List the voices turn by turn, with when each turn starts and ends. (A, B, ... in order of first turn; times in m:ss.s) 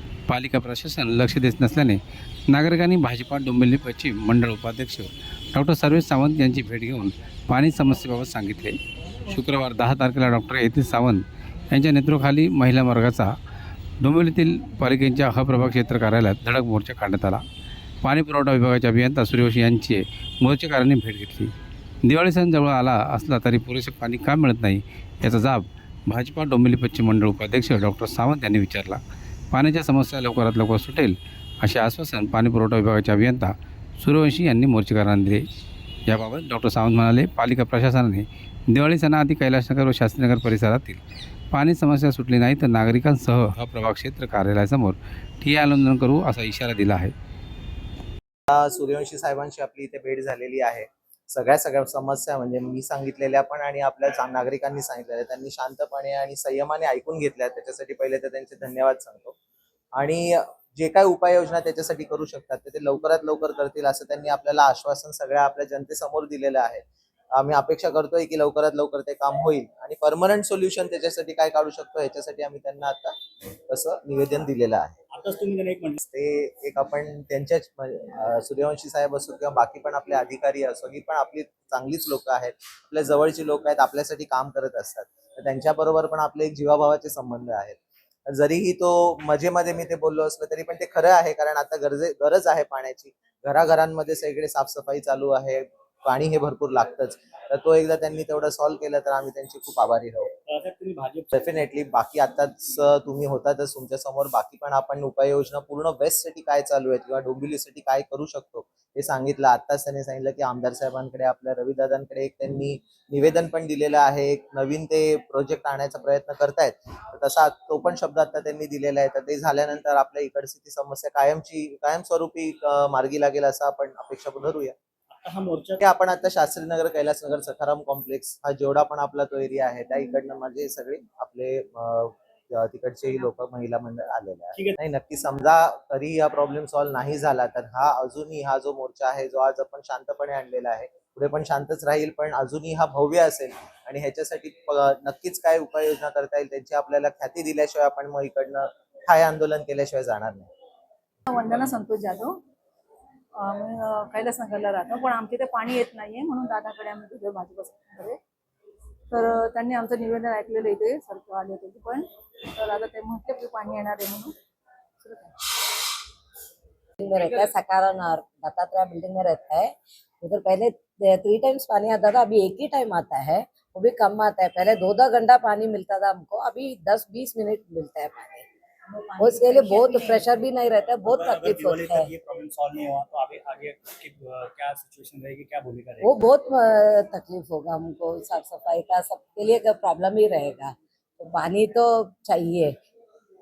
0:00.3-0:08.8 A
0:09.3-0:13.3 A
0:14.0-0:17.4 A
0:18.0-0:21.5 A
0:22.0-0:29.0 A
0:29.5-0:35.4 A
0:36.1-0:41.0 A
0:41.5-0:47.1 A
0:48.5-0:59.3 B
0:59.9-1:06.8 B
1:07.3-1:13.2 B
1:13.7-1:15.0 B
1:15.1-1:16.0 C
1:16.0-1:40.3 B
1:40.4-1:41.4 C
1:41.3-2:04.7 B
2:05.1-2:05.8 C
2:05.8-2:30.5 B
2:31.3-2:32.4 D
2:33.3-2:38.2 D
2:39.1-2:44.3 D
2:45.0-2:45.4 D
2:47.0-2:58.5 E
2:59.1-3:02.1 E
3:01.0-3:06.1 C
3:06.0-3:12.7 E